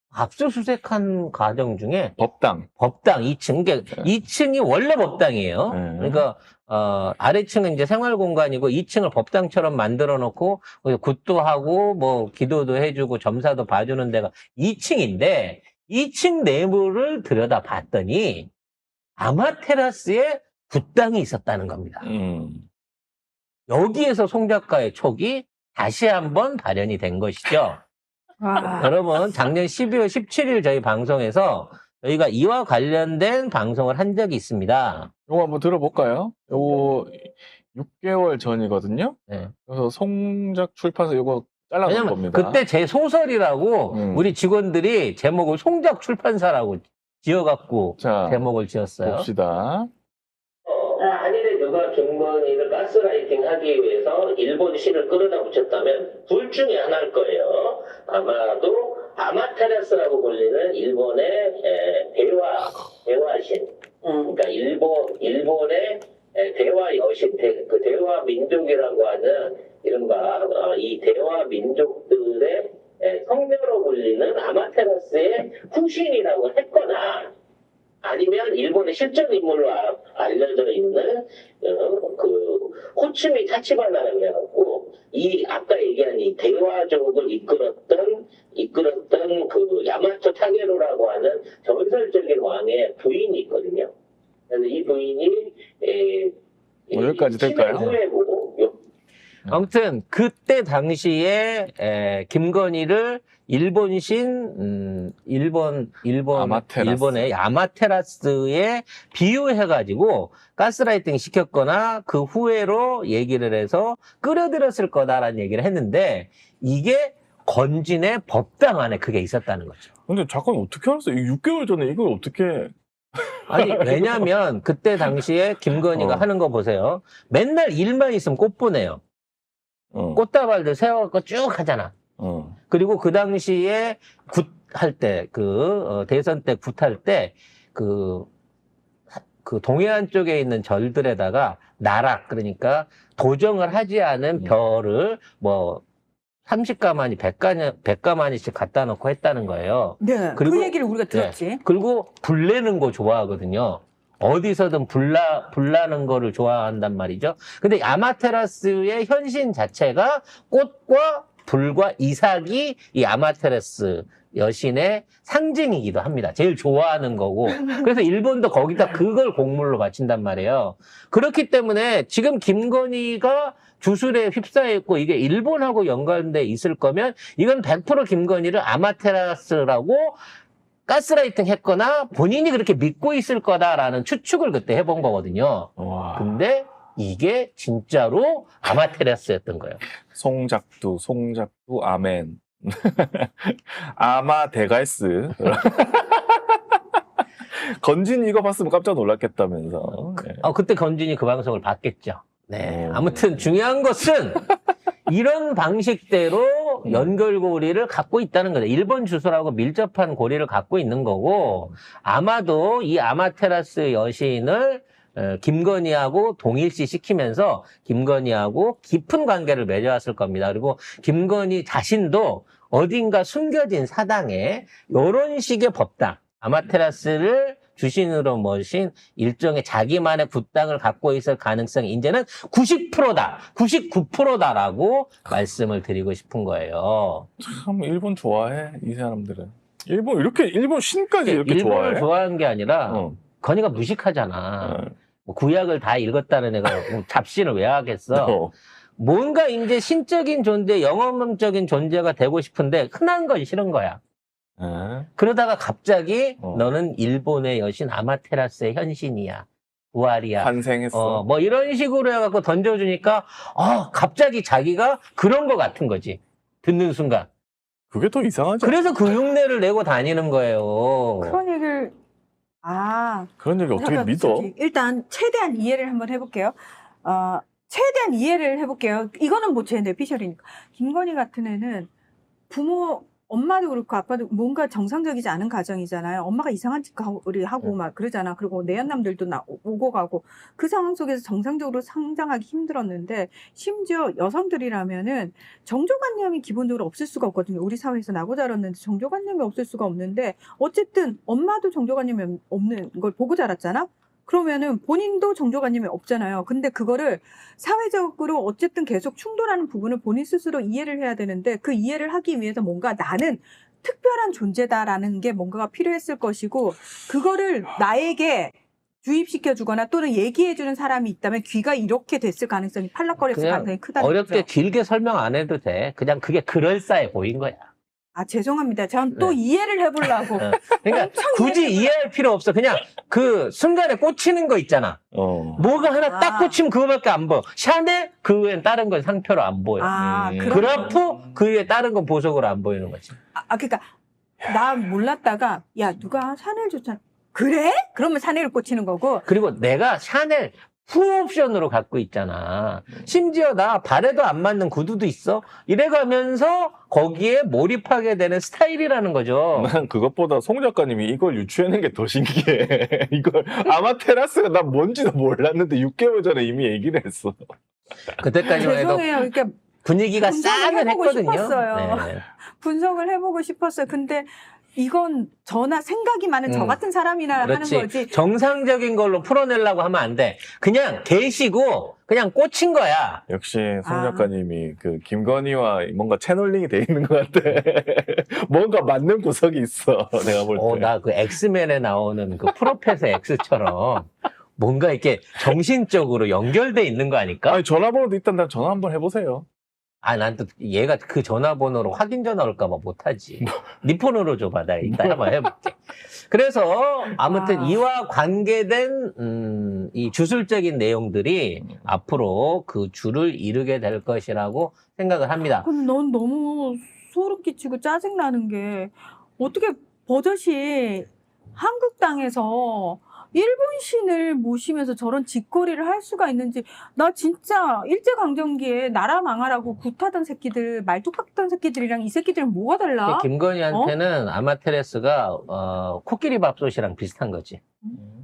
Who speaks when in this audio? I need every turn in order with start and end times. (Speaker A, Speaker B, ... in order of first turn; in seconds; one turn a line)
Speaker A: 0.1-2.2
Speaker B: 2.2-2.7
Speaker A: 2.8-18.5
Speaker B: 5.7-6.3
Speaker A: 19.2-22.1
Speaker B: 22.0-22.7
Speaker A: 23.7-27.8
Speaker C: 28.4-28.9
Speaker A: 28.6-35.1
Speaker B: 35.3-42.6
Speaker A: 39.3-39.5
Speaker A: 41.9-49.3
Speaker B: 43.9-44.3
Speaker B: 48.0-48.5
Speaker B: 49.0-49.9
Speaker A: 50.7-77.3
Speaker A: 78.0-93.9
Speaker A: 94.5-96.3
Speaker A: 96.9-98.8
Speaker B: 96.9-98.0
Speaker A: 99.5-119.9
Speaker B: 106.3-107.2
Speaker B: 120.1-124.3
Speaker A: 123.5-129.0
Speaker B: 125.9-126.3
Speaker B: 129.9-130.2
Speaker A: 130.2-132.0
Speaker B: 132.2-132.6
Speaker A: 132.7-138.3
Speaker A: 139.2-145.8
Speaker A: 146.5-180.2
Speaker C: 150.0-151.6
Speaker A: 180.9-189.8
Speaker B: 185.8-186.3
Speaker B: 190.1-196.6
Speaker B: 197.5-200.4
Speaker A: 200.2-204.5
Speaker B: 202.6-203.5
Speaker A: 205.1-237.3
Speaker B: 206.8-207.1
Speaker B: 237.4-242.1
Speaker A: 241.2-248.4
Speaker B: 242.9-243.2
Speaker B: 244.6-244.9
Speaker B: 248.1-248.5
Speaker A: 249.0-254.0
Speaker B: 254.6-255.1
Speaker A: 255.2-267.3
Speaker B: 260.4-261.2
Speaker B: 267.9-269.1
Speaker A: 268.6-271.4
Speaker C: 271.2-271.9
Speaker C: 272.6-281.9
Speaker B: 273.4-274.5
Speaker C: 282.5-324.5
Speaker A: 323.3-327.7
Speaker C: 328.1-332.0
Speaker A: 330.4-335.0
Speaker B: 335.1-335.6
Speaker A: 335.6-339.9
Speaker C: 335.8-336.6
Speaker C: 339.8-340.8
Speaker B: 339.9-340.7
Speaker A: 340.5-343.2
Speaker C: 343.3-343.9
Speaker C: 344.4-349.3
Speaker A: 349.2-359.8
Speaker B: 359.6-367.4
Speaker A: 368.1-369.1
Speaker C: 368.5-369.6
Speaker A: 369.8-372.2
Speaker C: 370.2-378.1
Speaker A: 376.5-376.8
Speaker A: 377.3-383.2
Speaker B: 383.3-390.9
Speaker C: 383.8-384.3
Speaker A: 390.5-397.6
Speaker B: 397.5-399.4
Speaker A: 400.0-415.7
Speaker C: 407.2-407.8
Speaker C: 415.6-433.9
Speaker A: 433.0-437.6